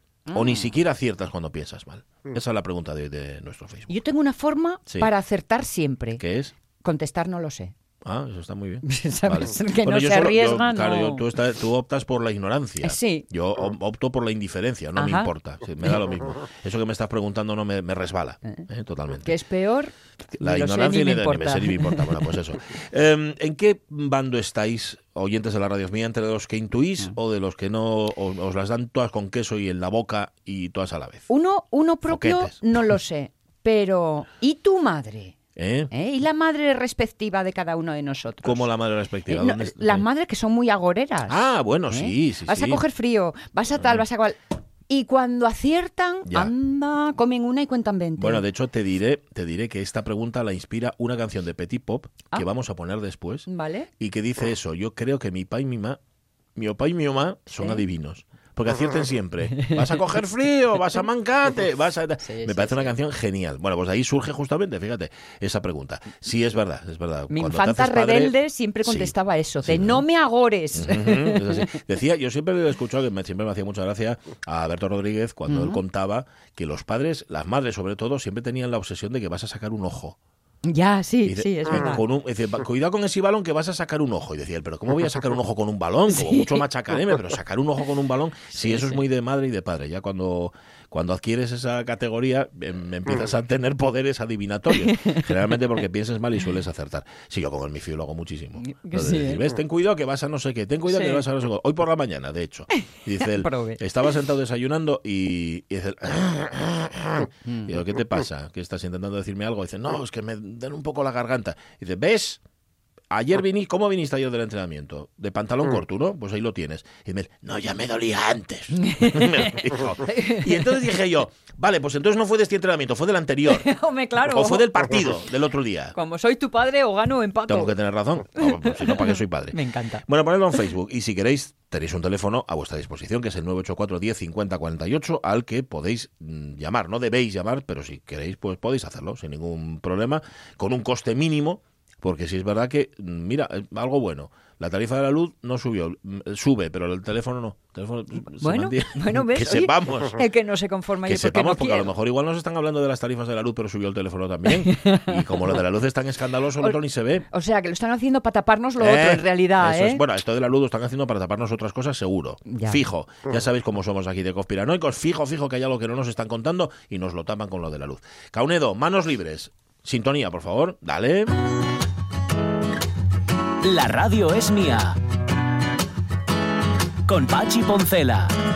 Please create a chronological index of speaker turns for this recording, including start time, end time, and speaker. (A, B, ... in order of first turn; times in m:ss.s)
0:00.3-0:00.8 A
0:00.3-0:03.9 B
0:03.9-0:06.2 A
0:06.2-0:06.5 B
0:06.8-0:07.7 A
0:08.0-0:19.4 B
0:08.8-0:11.3 A
0:12.8-0:13.3 A
0:15.0-0:15.3 A
0:19.2-0:22.4 A
0:20.4-0:31.3 B
0:31.3-0:35.4 A
0:32.1-0:32.6 B
0:35.6-0:35.9 B
0:35.9-0:38.7 A
0:38.4-0:40.1 B
0:39.3-0:44.4 A
0:41.3-0:42.8 B
0:44.9-0:48.5 A
0:46.3-0:46.5 B
0:48.2-0:53.5 B
0:53.5-0:53.9 A
0:54.0-0:56.0 B
0:56.6-1:10.1 B
0:57.6-0:57.8 A
0:59.5-1:00.2 A
1:02.2-1:02.9 A
1:07.3-1:11.7 A
1:10.7-1:20.2 B
1:15.5-1:15.8 A
1:20.6-1:22.0 A
1:21.2-1:52.4 B
1:26.1-1:26.6 A
1:28.6-1:29.0 A
1:34.7-1:35.5 A
1:38.6-1:39.4 A
1:40.9-1:41.2 A
1:42.7-1:43.8 A
1:47.4-1:47.8 A
1:53.1-2:03.7 B
1:58.7-2:00.9 A
2:03.5-2:04.7 A
2:04.2-2:06.0 B
2:05.9-2:07.8 A
2:07.5-2:30.2 B
2:08.4-2:10.0 A
2:28.4-2:31.9 A
2:31.0-2:37.3 B
2:34.5-2:35.4 A
2:37.3-2:40.0 A
2:38.8-2:51.3 B
2:42.5-2:42.8 A
2:53.6-2:55.0 C
2:57.1-2:58.3 C